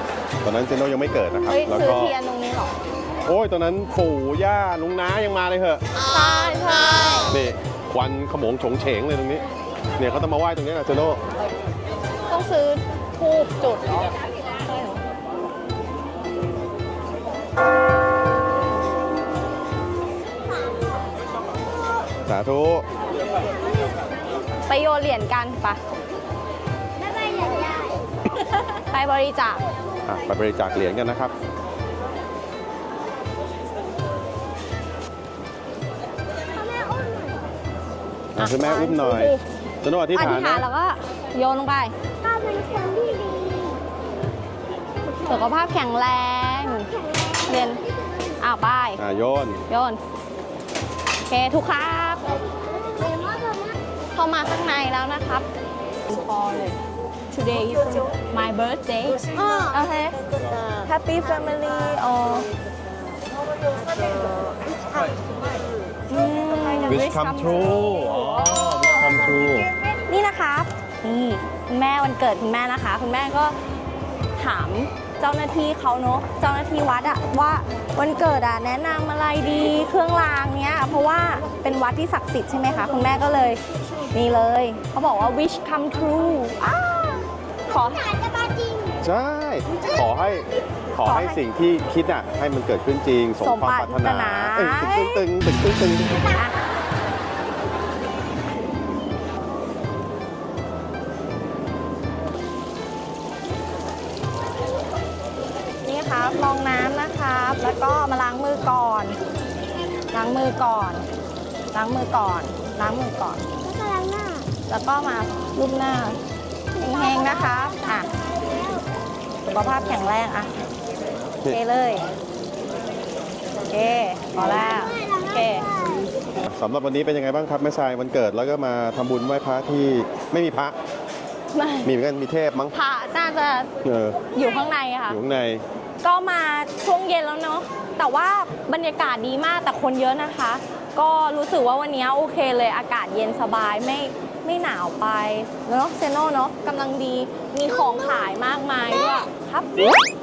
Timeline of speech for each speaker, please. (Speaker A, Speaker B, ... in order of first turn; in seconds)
Speaker A: 0.4-2.1, 3.2-5.8, 7.3-9.4, 10.0-11.2, 22.3-22.9, 30.1-31.3, 38.4-40.7, 49.0-49.6, 66.9-69.7, 89.0-96.2, 126.5-130.8, 131.8-132.8, 133.8-134.2, 135.1-135.7
Speaker B: 1.5-2.7, 6.1-7.4, 12.3-14.1, 24.7-25.8, 28.4-29.6, 38.4-39.4, 40.1-42.0, 45.3-46.9, 47.4-47.8, 48.4-49.0, 49.7-50.0, 51.3-52.2, 54.1-55.5, 56.1-56.8, 57.3-60.2, 60.8-62.5, 66.1-67.8, 70.1-73.6, 74.4-83.6, 84.1-88.0, 91.0-91.4, 93.4-95.2, 96.2-96.6, 105.8-109.2, 110.1-111.1, 111.7-113.4, 114.7-116.2, 116.8-118.1, 119.5-120.5, 121.5-122.1, 123.7-125.7, 131.5-131.9, 132.7-133.7, 134.3-135.2, 136.0-150.0
Speaker C: 27.0-28.1, 36.5-37.5, 42.2-43.8, 52.9-53.8, 87.7-89.0, 113.6-114.5, 116.9-118.8, 124.4-126.1, 147.7-148.3